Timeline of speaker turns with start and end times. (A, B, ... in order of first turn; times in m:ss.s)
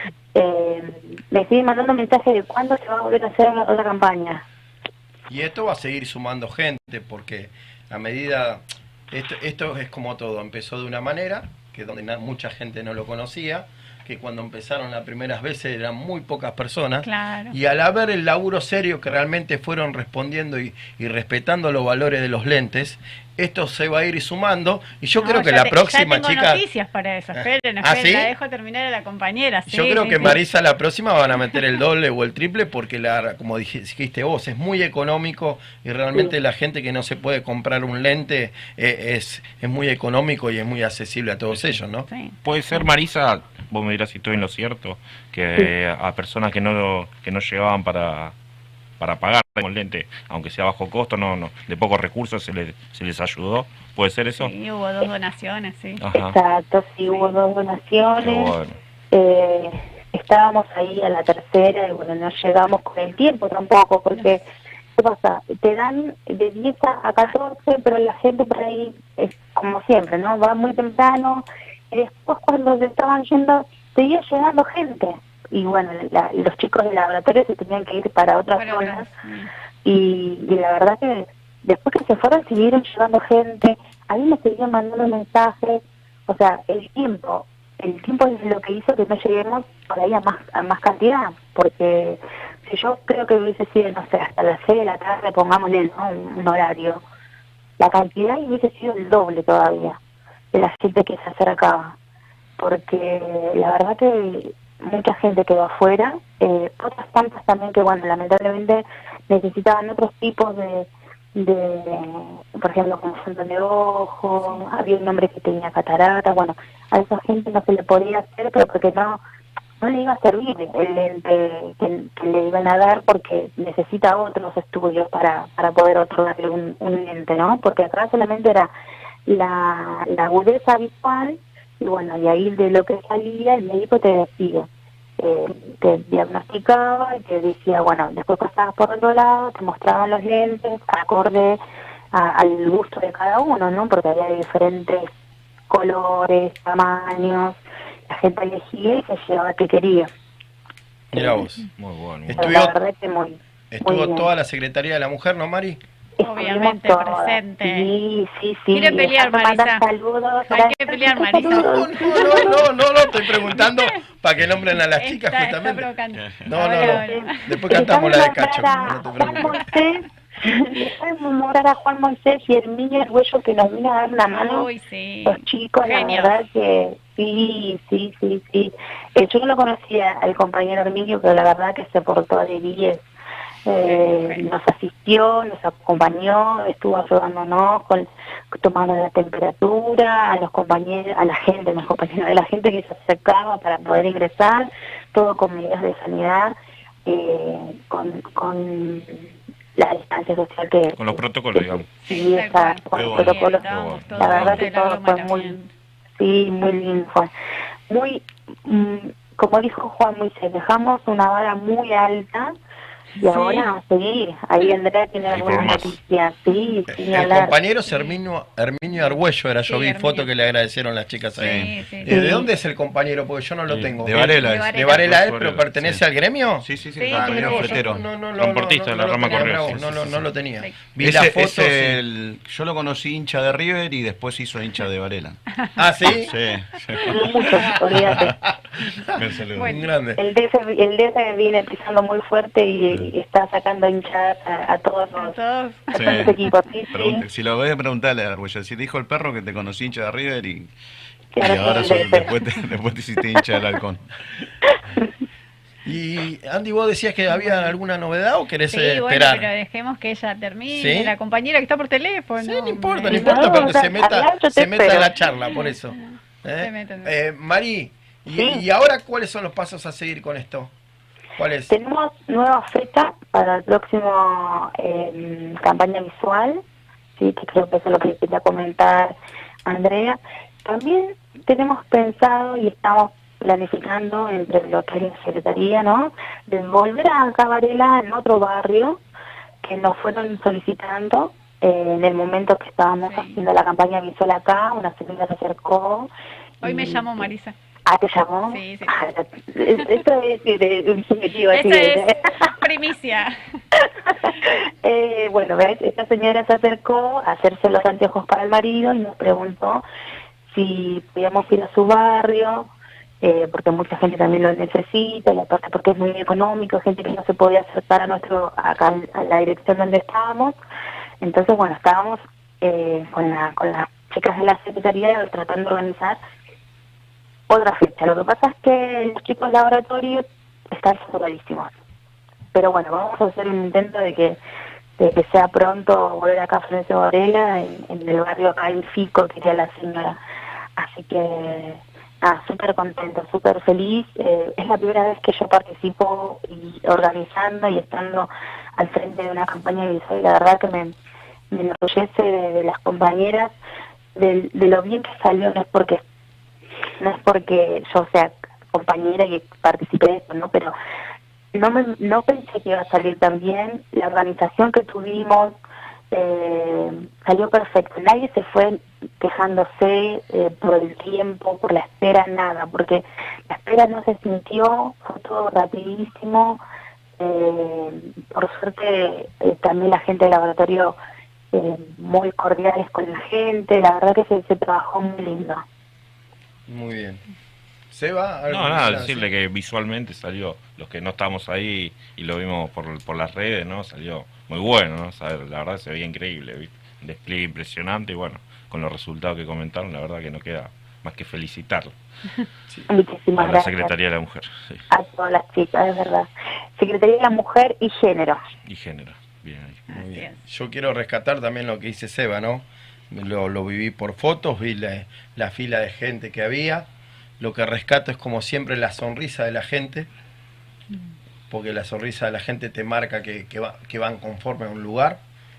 0:00.3-0:04.4 A
0:05.3-0:26.6 B
0:17.0-0:17.6 C
0:25.2-0:30.4 C
0:27.3-0:28.3 B
0:29.7-0:42.1 B
0:41.5-0:41.8 D
0:42.1-0:42.3 C
0:42.4-0:48.3 D
0:49.0-0:54.5 D
0:54.4-0:56.0 C
0:56.0-0:56.4 D
0:56.1-0:58.5 A
0:58.2-0:58.8 D
0:59.1-1:04.4 A
1:05.0-1:19.0 A
1:18.5-1:19.5 C
1:19.8-1:37.0 A
1:37.8-1:40.0 A
1:40.5-1:41.9 A
1:42.6-1:59.2 A
1:59.8-2:08.7 A
2:09.2-2:14.7 A
2:15.2-2:21.6 A
2:22.1-2:25.1 A
2:25.7-2:27.6 A
2:28.1-2:30.1 A
2:31.1-2:31.6 B
2:31.8-2:32.5 D
2:32.3-2:32.8 B
2:32.3-2:34.3 A
2:33.7-2:35.8 B
2:36.2-2:42.6 A
2:36.2-2:37.9 C
2:38.7-2:39.8 C
2:40.5-2:43.9 C
2:41.5-2:45.9 B
2:44.8-2:47.6 C
2:46.1-2:46.5 E
2:46.4-2:49.6 B
2:46.7-2:54.7 A
2:54.3-2:56.4 C
2:55.2-3:03.0 A
3:03.6-3:16.5 A
3:03.8-3:04.4 C
3:17.0-3:19.1 A
3:19.8-3:21.0 A
3:21.0-3:21.9 D
3:22.0-3:25.6 A
3:22.0-3:25.7 C
3:22.9-3:23.4 E
3:23.7-3:24.6 D
3:26.2-3:27.3 A
3:27.9-3:32.5 A
3:33.2-3:33.7 C
3:33.2-3:37.6 A
3:35.3-3:36.0 D
3:36.9-3:52.0 B
3:39.6-3:40.3 C
3:41.4-3:42.1 C
3:41.4-3:41.7 E
3:42.1-3:42.5 A
3:43.7-3:44.0 D
3:43.9-3:46.0 E
3:44.4-3:45.0 C
3:44.8-3:45.7 D
3:46.6-3:48.0 E
3:47.0-3:47.9 C
3:48.4-3:50.1 D
3:49.3-3:50.2 E
3:51.0-3:55.4 E
3:55.8-3:56.3 B
3:56.0-3:58.2 E
3:57.0-3:58.4 A
3:59.1-3:59.7 E
3:59.6-3:59.9 C
3:59.7-4:00.2 B
4:00.2-4:05.4 A
4:05.2-4:06.3 C
4:05.9-4:07.2 A
4:05.9-4:06.3 E
4:06.9-4:10.7 E
4:11.3-4:12.4 A
4:11.4-4:14.0 E
4:15.8-4:19.5 B
4:17.3-4:17.7 C
4:18.7-4:23.4 C
4:20.7-4:21.1 B
4:22.4-4:30.7 B
4:23.1-4:25.1 A
4:25.5-4:27.1 C
4:28.3-4:28.6 A
4:31.4-4:31.7 B
4:31.7-4:36.6 A
4:37.2-4:39.1 A
4:39.6-4:49.0 A
4:49.6-4:56.1 A
4:53.0-4:53.4 C
4:56.6-4:57.3 A
4:56.6-4:57.5 C
4:57.9-5:02.5 A
4:58.5-4:59.1 C
5:01.5-5:03.4 C
5:03.8-5:09.8 A
5:10.5-5:12.7 A
5:13.2-5:20.6 A
5:21.2-5:26.2 A
5:27.5-5:31.7 A
5:32.5-5:34.4 A
5:35.0-5:40.2 A
5:40.8-5:50.9 A
5:51.5-5:53.5 A
5:54.2-5:56.0 A
5:57.0-6:00.7 A
6:01.5-6:05.5 A
6:06.1-6:16.6 A
6:17.2-6:21.0 A
6:21.5-6:25.6 A
6:26.7-6:27.2 B
6:27.9-6:29.2 B
6:28.5-6:41.9 D
6:42.9-6:43.9 A
6:43.4-6:44.8 D
6:44.9-6:48.4 A
6:48.7-6:49.8 D
6:49.9-6:50.4 C
6:49.9-6:56.9 B
6:57.4-7:00.1 B
7:01.5-7:05.2 B